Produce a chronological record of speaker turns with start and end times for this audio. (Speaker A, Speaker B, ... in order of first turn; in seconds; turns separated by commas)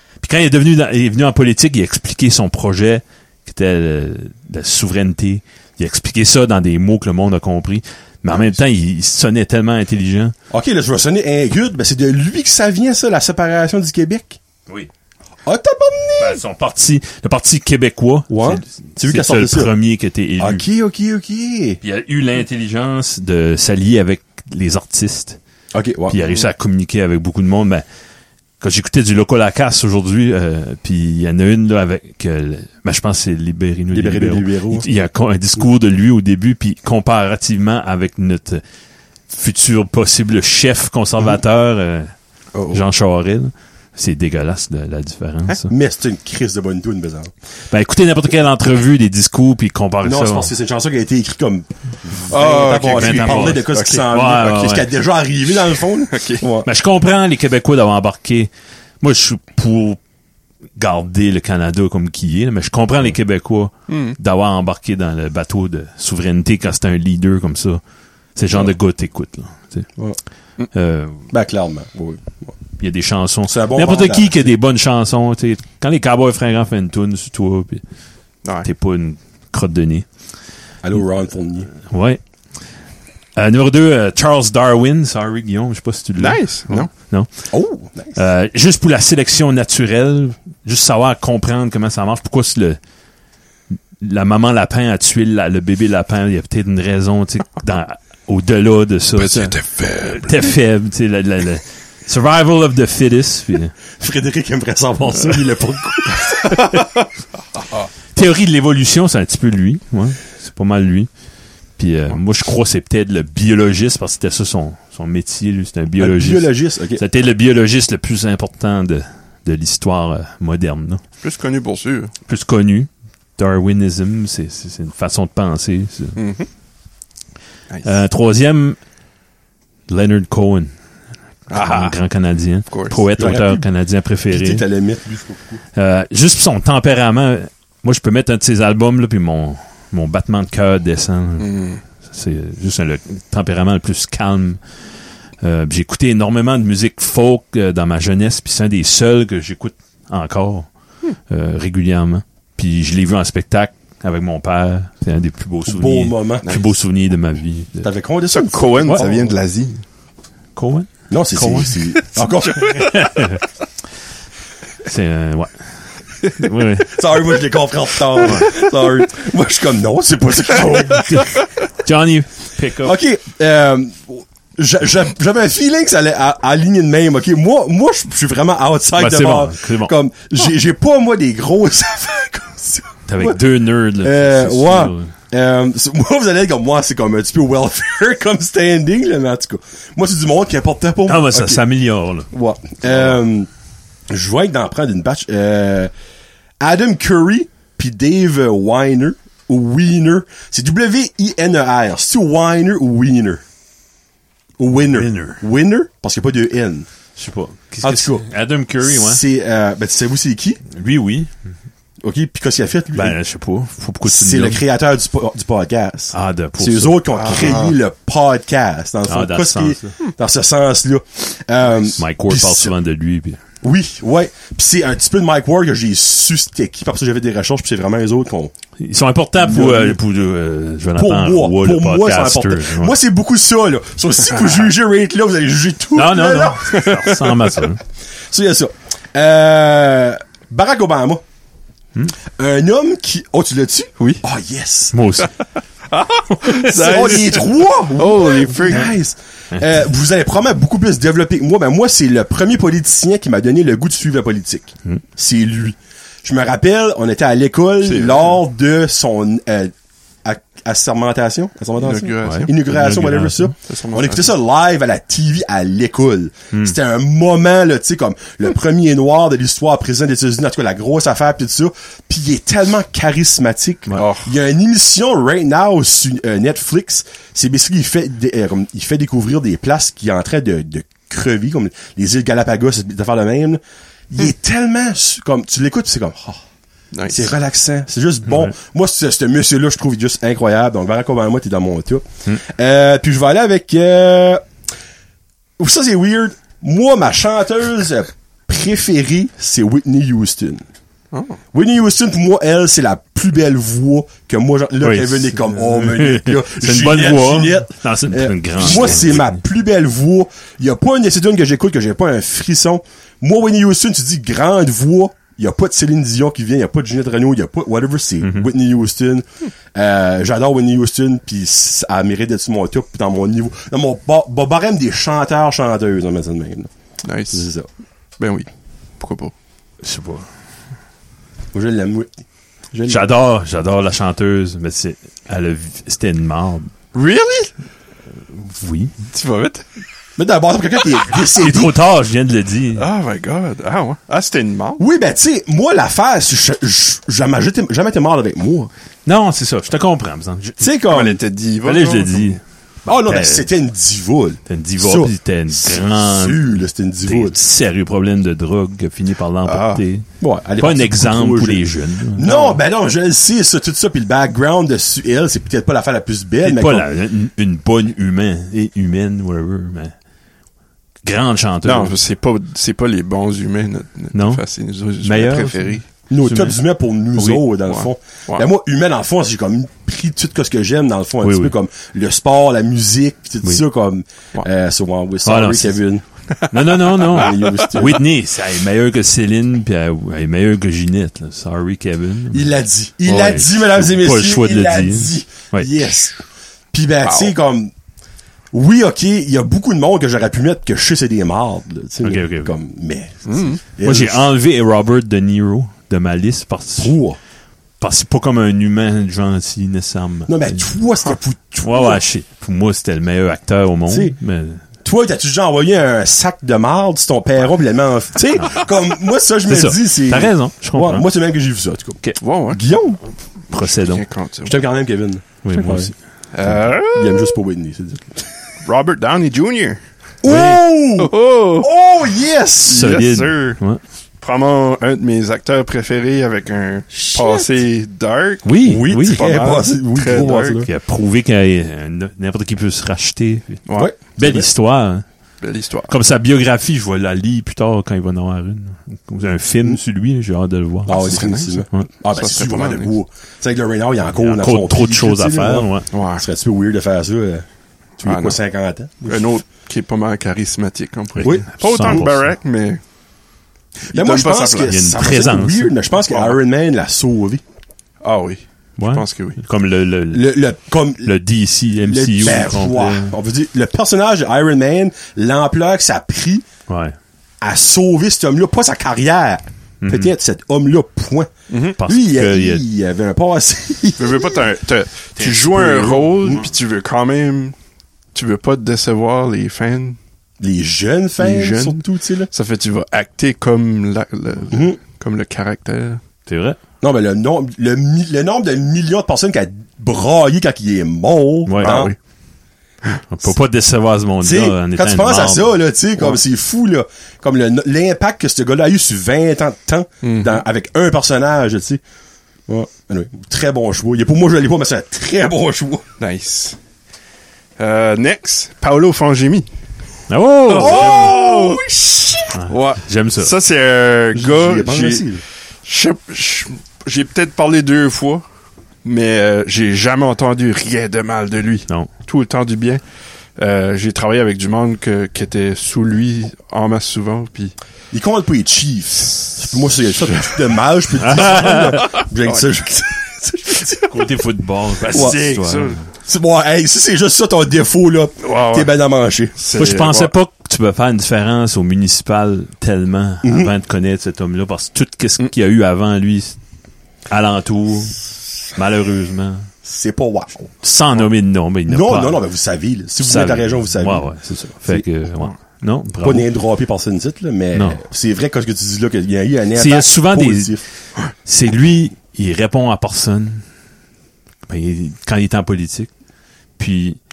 Speaker A: 0.2-10.3, Speaker B: 10.5-14.4, Speaker B: 15.5-16.4, Speaker A: 16.2-20.6, Speaker B: 18.3-19.7, Speaker B: 20.4-21.8, Speaker A: 21.8-25.4, Speaker B: 25.7-26.2, Speaker A: 26.1-27.8, Speaker A: 28.6-38.6, Speaker B: 33.9-34.9, Speaker A: 39.3-42.1, Speaker A: 42.7-45.7, Speaker B: 45.7-47.3, Speaker A: 47.7-50.5, Speaker B: 50.0-56.7, Speaker C: 52.3-54.1, Speaker A: 52.9-54.9, Speaker C: 56.1-56.5, Speaker A: 56.6-58.5, Speaker A: 59.0-60.0, Speaker A: 60.8-67.8, Speaker C: 63.9-64.2, Speaker A: 68.3-69.9, Speaker A: 70.7-71.3, Speaker B: 71.3-72.5, Speaker A: 72.8-77.8, Speaker B: 73.5-74.5, Speaker A: 78.6-80.1, Speaker B: 80.8-81.7, Speaker A: 81.7-82.2, Speaker A: 83.4-87.3, Speaker C: 86.2-86.9, Speaker B: 87.5-88.2, Speaker A: 88.2-92.8, Speaker A: 94.0-103.8, Speaker C: 99.2-100.5, Speaker B: 104.0-106.8, Speaker A: 108.1-111.1, Speaker A: 111.8-121.0, Speaker B: 116.0-117.0, Speaker C: 121.2-122.1, Speaker A: 122.3-126.2, Speaker C: 126.2-126.5, Speaker A: 127.8-128.8, Speaker A: 129.9-130.7, Speaker A: 131.5-134.6, Speaker C: 131.5-131.9, Speaker C: 132.7-133.0, Speaker B: 133.2-133.6, Speaker B: 134.3-135.6, Speaker A: 135.8-141.5, Speaker C: 141.4-141.8, Speaker A: 142.0-144.6, Speaker A: 145.4-150.7, Speaker A: 151.3-157.9, Speaker B: 155.7-156.5, Speaker B: 157.8-159.2, Speaker C: 158.3-159.8, Speaker A: 158.8-159.1, Speaker A: 160.6-161.8, Speaker B: 161.1-162.8, Speaker C: 162.2-163.1, Speaker A: 162.6-163.4, Speaker A: 164.8-165.7, Speaker A: 166.3-167.0, Speaker B: 166.9-171.4, Speaker A: 168.2-168.5, Speaker C: 170.6-171.4, Speaker A: 171.0-173.0, Speaker B: 172.8-183.4, Speaker A: 179.0-179.9, Speaker A: 183.1-185.1, Speaker B: 184.0-191.6, Speaker A: 191.1-192.3, Speaker B: 192.3-193.5, Speaker B: 194.1-195.9, Speaker B: 196.6-203.4, Speaker B: 204.6-206.9, Speaker A: 204.9-205.4, Speaker A: 207.2-209.2, Speaker B: 207.8-208.3, Speaker B: 208.8-210.6, Speaker A: 210.7-211.3, Speaker B: 212.0-213.2, Speaker A: 212.9-214.6, Speaker B: 214.1-222.7, Speaker A: 216.1-217.0, Speaker C: 217.1-217.8, Speaker A: 219.1-219.9, Speaker A: 221.9-223.4, Speaker B: 223.6-228.5, Speaker A: 228.8-232.9, Speaker B: 229.4-230.0, Speaker B: 231.0-236.8, Speaker A: 235.9-237.8, Speaker C: 236.7-237.3, Speaker B: 238.3-241.2, Speaker B: 242.4-244.9, Speaker A: 244.9-245.3, Speaker C: 245.9-248.9, Speaker B: 246.6-259.7, Speaker C: 257.8-258.4, Speaker B: 260.2-286.4, Speaker C: 261.8-263.0, Speaker A: 262.2-263.5, Speaker C: 263.6-264.3, Speaker C: 273.9-274.3, Speaker C: 286.9-287.3, Speaker B: 287.1-294.4, Speaker A: 288.3-288.5, Speaker B: 295.6-300.6, Speaker C: 301.1-301.4, Speaker B: 301.5-326.7, Speaker A: 304.8-309.4, Speaker A: 318.2-318.5, Speaker C: 327.0-327.5, Speaker B: 327.3-327.7, Speaker C: 328.2-328.5, Speaker C: 329.0-329.3, Speaker A: 329.8-330.3, Speaker B: 331.5-332.1, Speaker C: 332.7-333.1, Speaker A: 332.9-336.7, Speaker C: 336.9-337.5, Speaker A: 338.3-338.9, Speaker C: 339.1-339.6, Speaker B: 340.2-341.8, Speaker A: 341.4-342.9, Speaker C: 342.8-344.8, Speaker B: 344.8-348.7, Speaker A: 349.1-350.7, Speaker B: 350.6-351.2, Speaker C: 350.9-352.4, Speaker A: 351.6-353.5, Speaker B: 352.9-357.4, Speaker A: 354.5-360.1, Speaker C: 359.4-359.8, Speaker B: 360.2-366.9, Speaker A: 360.6-362.3, Speaker C: 362.2-362.6, Speaker A: 366.4-369.9, Speaker A: 371.0-372.0, Speaker C: 371.6-375.8, Speaker A: 374.1-374.4, Speaker A: 375.0-376.6, Speaker B: 376.1-386.0, Speaker A: 377.2-377.4, Speaker C: 377.7-378.5, Speaker A: 381.2-381.6, Speaker A: 385.2-385.8, Speaker C: 386.4-387.8, Speaker A: 386.5-392.5, Speaker B: 387.1-388.0, Speaker B: 392.3-396.2, Speaker A: 393.1-395.7, Speaker B: 396.7-397.7, Speaker C: 397.0-397.4, Speaker B: 398.5-404.3, Speaker A: 402.0-402.5, Speaker C: 403.3-403.6, Speaker A: 403.8-407.0, Speaker B: 406.8-407.2, Speaker A: 407.8-410.7, Speaker B: 410.3-412.0, Speaker A: 411.6-414.6, Speaker B: 413.9-414.1, Speaker B: 414.8-423.0, Speaker A: 419.5-421.1, Speaker C: 422.2-422.6, Speaker A: 423.5-424.1, Speaker C: 423.6-424.6, Speaker B: 424.4-425.9, Speaker A: 425.4-425.9, Speaker C: 426.3-427.3, Speaker B: 426.4-428.3, Speaker C: 428.6-429.8, Speaker B: 430.2-432.9, Speaker A: 430.2-430.6, Speaker C: 431.0-431.7, Speaker C: 432.6-433.6, Speaker A: 432.7-433.8, Speaker C: 434.2-440.6, Speaker B: 436.9-437.5, Speaker A: 438.4-439.3, Speaker B: 438.6-440.7, Speaker A: 440.6-445.1, Speaker C: 443.7-443.9, Speaker B: 443.8-444.5, Speaker C: 445.4-445.9, Speaker A: 445.9-451.9, Speaker B: 450.9-457.4, Speaker C: 450.9-452.9, Speaker A: 454.1-455.9, Speaker C: 455.9-456.2, Speaker B: 458.0-459.3, Speaker C: 458.0-458.4, Speaker C: 459.1-462.8, Speaker A: 461.2-462.3, Speaker B: 461.2-462.1, Speaker C: 463.9-464.8, Speaker B: 463.9-467.4, Speaker A: 464.7-465.7, Speaker C: 466.1-466.4, Speaker C: 468.0-469.4, Speaker A: 468.8-470.3, Speaker B: 470.1-471.1, Speaker A: 471.0-473.1, Speaker B: 471.9-476.5, Speaker A: 476.7-477.0, Speaker B: 477.4-484.5, Speaker A: 479.8-480.1, Speaker C: 481.5-481.8, Speaker A: 481.8-482.6, Speaker C: 484.0-487.6, Speaker A: 485.2-486.4, Speaker C: 488.1-490.0, Speaker B: 490.4-492.3, Speaker C: 491.2-496.0, Speaker B: 494.5-494.8, Speaker A: 496.3-496.6, Speaker B: 496.8-501.9, Speaker A: 501.5-501.9, Speaker C: 501.6-502.0, Speaker A: 503.1-505.6, Speaker B: 504.2-511.8, Speaker C: 510.0-510.4, Speaker B: 512.5-515.8, Speaker C: 516.0-516.6, Speaker C: 517.6-519.5, Speaker A: 520.1-521.1, Speaker C: 520.5-525.1, Speaker B: 520.5-521.6, Speaker A: 522.3-523.3, Speaker B: 524.1-525.2, Speaker C: 525.6-528.2, Speaker C: 528.8-532.8, Speaker C: 533.4-537.5, Speaker B: 537.9-544.0, Speaker C: 540.0-540.4, Speaker A: 541.0-542.0, Speaker C: 541.5-542.5, Speaker A: 543.9-545.8, Speaker C: 544.8-545.8, Speaker B: 544.9-545.4, Speaker B: 546.0-549.3, Speaker C: 548.2-548.7, Speaker C: 549.4-550.1, Speaker A: 549.5-556.4, Speaker B: 553.2-553.5, Speaker A: 557.1-559.5, Speaker B: 559.6-560.5, Speaker A: 560.6-562.2, Speaker B: 561.7-564.1, Speaker A: 563.0-566.3, Speaker B: 566.0-570.6, Speaker A: 567.5-567.8, Speaker A: 569.5-570.6, Speaker A: 571.2-573.5, Speaker A: 574.5-575.9, Speaker A: 576.6-577.0